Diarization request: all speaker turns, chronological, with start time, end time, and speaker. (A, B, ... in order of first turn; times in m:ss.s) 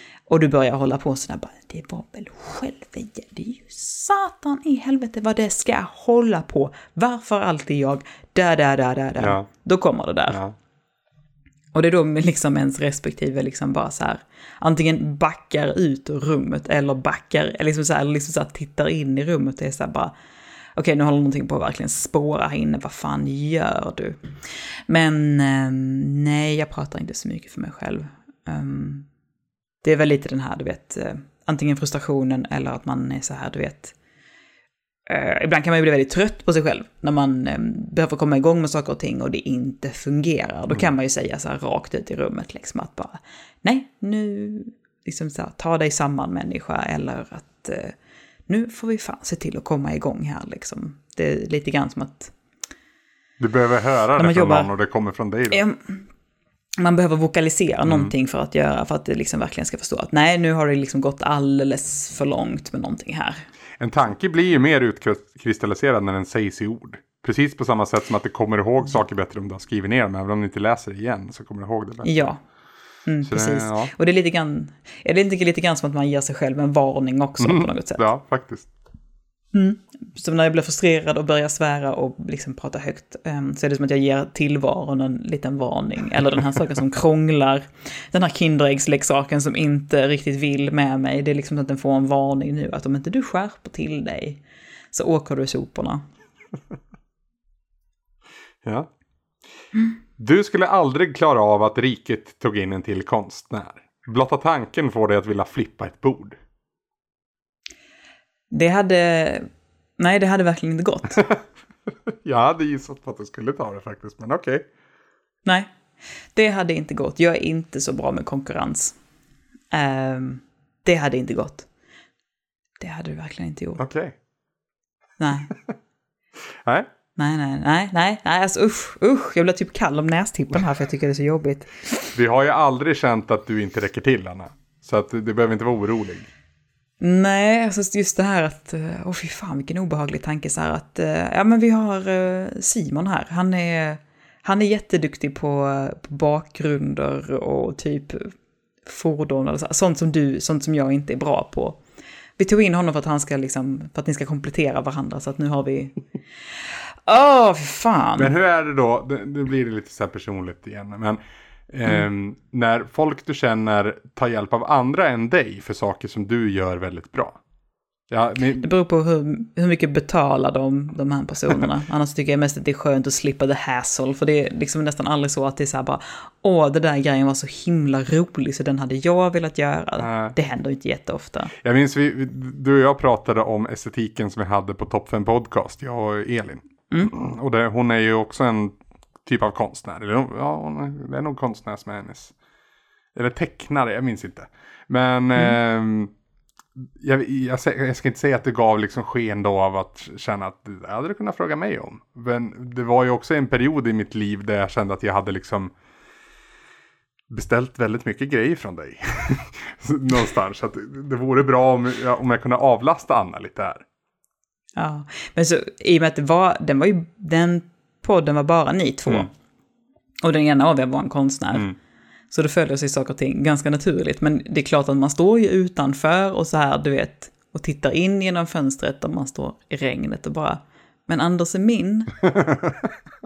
0:00.3-0:10.4 A
0:09.2-0:09.5 B
0:10.3-0:10.6 B
0:11.7-0:20.1 A
0:20.8-0:24.2 A
0:24.9-0:29.1 A
0:29.8-0:33.9 A
0:35.1-0:48.0 A
0:48.5-0:52.3 A
0:53.4-0:55.6 B
0:54.2-0:54.7 A
0:55.5-0:56.1 A
0:56.8-1:03.5 A
0:57.9-0:58.1 B
1:03.8-1:12.3 B
1:12.0-1:12.4 A
1:13.1-1:18.1 A
1:13.2-1:13.9 B
1:17.4-1:18.7 B
1:19.5-1:34.4 A
1:34.9-1:36.0 A
1:38.6-1:38.9 B
1:40.2-1:46.4 B
1:48.5-1:49.5 A
1:50.0-1:51.3 A
1:52.1-1:54.7 B
1:56.3-1:59.0 A
1:59.7-2:01.7 A
2:02.8-2:03.9 A
2:03.8-2:04.2 B
2:05.2-2:05.5 A
2:06.6-2:06.9 B
2:07.2-2:12.1 A
2:12.2-2:16.3 B
2:17.0-2:28.3 A
2:28.8-2:31.8 A
2:32.4-2:36.0 A
2:36.7-2:38.3 A
2:38.2-2:47.4 B
2:48.1-2:48.7 B
2:48.6-3:01.5 A
3:00.0-3:00.4 B
3:01.6-3:12.3 B
3:13.1-3:16.1 B
3:17.0-3:25.7 B
3:27.3-3:33.8 B
3:34.8-3:39.3 A
3:40.2-3:41.7 A
3:42.3-3:52.2 A